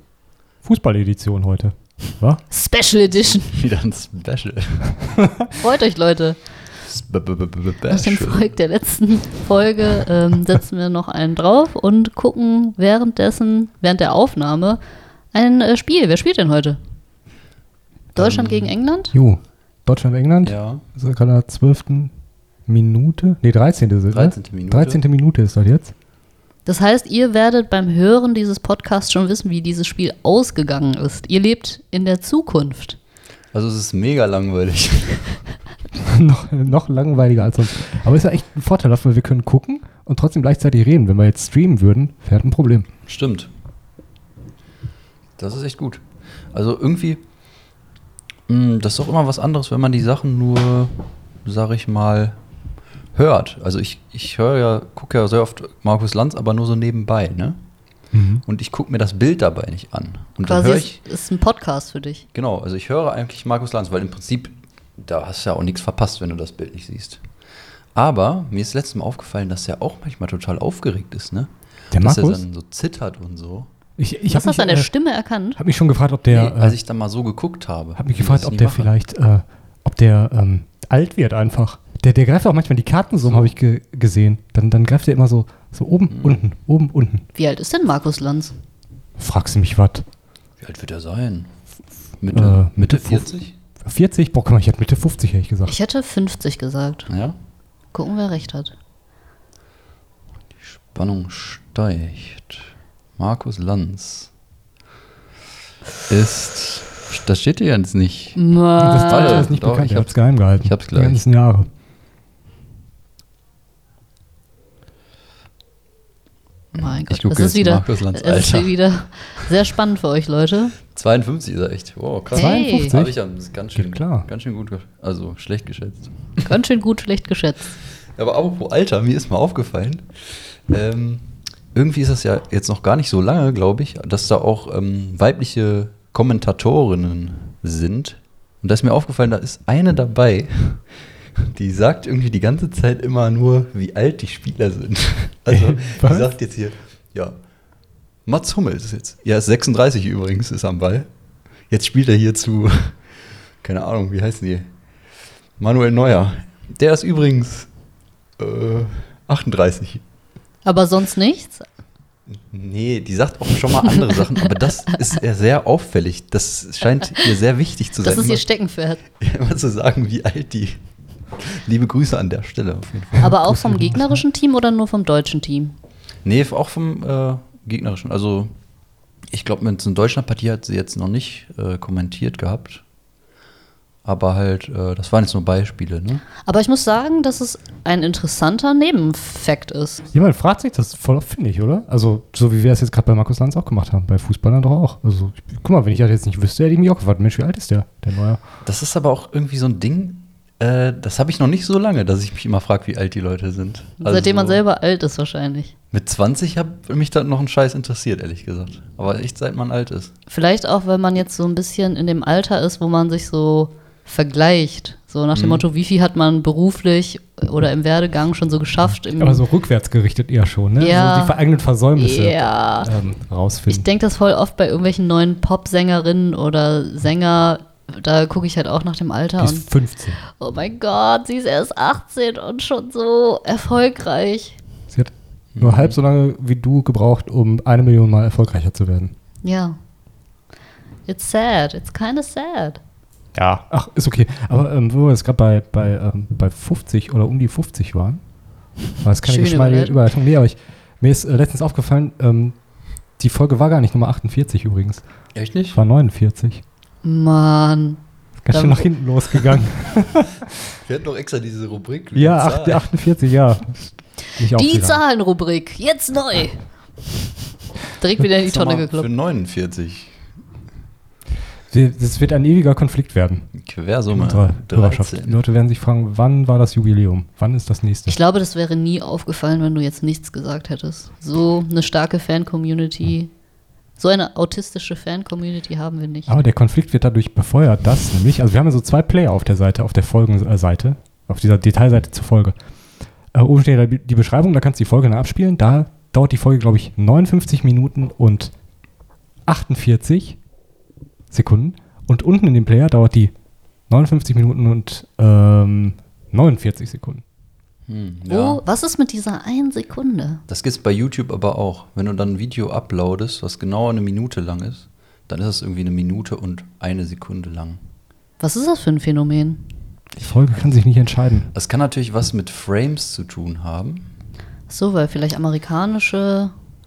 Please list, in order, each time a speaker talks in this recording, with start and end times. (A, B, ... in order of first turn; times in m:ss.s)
0:00.6-0:02.4 A
0:02.5-0:03.6 B
0:03.4-0:05.0 C
0:05.5-0:06.4 B
0:06.8-0:08.5 C
0:07.9-0:14.8 B
0:15.3-0:16.8 B
0:18.2-0:19.1 B
0:18.2-0:18.7 C
0:19.1-0:22.1 A
0:20.4-0:20.8 C
0:22.7-0:25.9 A
0:24.1-0:25.0 C
0:26.6-0:33.0 B
0:33.5-0:35.4 C
0:36.0-0:42.9 A
0:43.1-0:43.5 C
0:45.4-0:46.0 C
0:46.5-0:47.2 C
0:48.5-0:52.4 C
0:53.1-0:57.6 C
0:58.1-0:58.4 A
0:58.4-1:01.0 C
1:00.4-1:02.2 B
1:02.3-1:07.2 C
1:07.9-1:13.7 C
1:11.9-1:12.4 A
1:14.0-1:14.9 A
1:14.3-1:15.6 B
1:15.6-1:16.8 A
1:16.3-1:18.9 C
1:18.0-1:27.2 A
1:23.2-1:23.5 C
1:26.1-1:26.4 C
1:27.3-1:28.5 B
1:29.2-1:30.0 A
1:30.6-1:31.5 C
1:32.2-1:33.5 C
1:32.3-1:35.8 A
1:35.6-1:37.1 B
1:37.1-1:37.4 C
1:37.9-1:38.7 B
1:40.6-1:44.3 C
1:46.1-1:48.4 C
1:48.4-1:49.5 B
1:48.8-1:51.7 A
1:48.9-1:51.2 C
1:56.7-2:00.8 B
1:56.8-1:58.8 C
2:00.9-2:06.1 C
2:02.3-2:03.1 A
2:02.3-2:02.9 B
2:03.8-2:04.3 A
2:06.4-2:07.7 B
2:08.2-2:20.8 C
2:21.4-2:27.3 C
2:25.5-2:26.3 A
2:28.2-2:31.1 C
2:31.7-2:33.0 C
2:33.6-2:34.7 C
2:35.6-2:37.7 C
2:38.4-2:40.0 C
2:40.6-2:41.6 B
2:42.3-2:48.4 C
2:48.0-2:49.0 B
2:49.2-2:50.8 C
2:51.3-2:53.3 C
2:53.1-2:54.2 A
2:53.2-2:55.7 B
2:56.2-2:58.5 C
2:59.3-3:02.8 C
3:04.0-3:06.2 C
3:06.4-3:10.0 B
3:10.1-3:18.4 A
3:18.6-3:24.6 C
3:24.0-3:25.7 B
3:25.9-3:30.1 C
3:30.3-3:39.4 B
3:35.3-3:35.6 C
3:39.2-3:43.8 A
3:40.8-3:41.4 B
3:42.0-3:42.9 B
3:43.7-3:49.6 B
3:49.4-3:50.2 A
3:50.4-3:54.6 B
3:54.9-3:59.1 A
3:55.5-3:56.0 C
3:59.4-3:59.8 B
4:01.1-4:02.8 B
4:03.3-4:08.2 A
4:09.0-4:12.6 A
4:09.2-4:10.0 B
4:13.2-4:15.0 A
4:15.3-4:15.8 C
4:15.7-4:16.6 A
4:17.0-4:18.9 B
4:18.4-4:20.4 A
4:20.8-4:22.8 C
4:22.1-4:25.0 A
4:24.5-4:26.6 B
4:28.0-4:29.1 B
4:28.5-4:30.2 C
4:31.7-4:33.5 A
4:33.5-4:35.4 C
4:34.1-4:38.1 A
4:38.1-4:43.3 B
4:44.0-4:46.3 B
4:46.3-4:52.6 A
4:53.3-4:58.5 A
4:59.4-5:00.4 A
5:01.3-5:03.3 A
5:03.9-5:07.2 A
5:07.9-5:08.6 C
5:08.3-5:10.4 B
5:10.5-5:17.8 C
5:18.4-5:19.6 B
5:20.2-5:21.5 A
5:21.5-5:24.1 C
5:24.7-5:26.5 B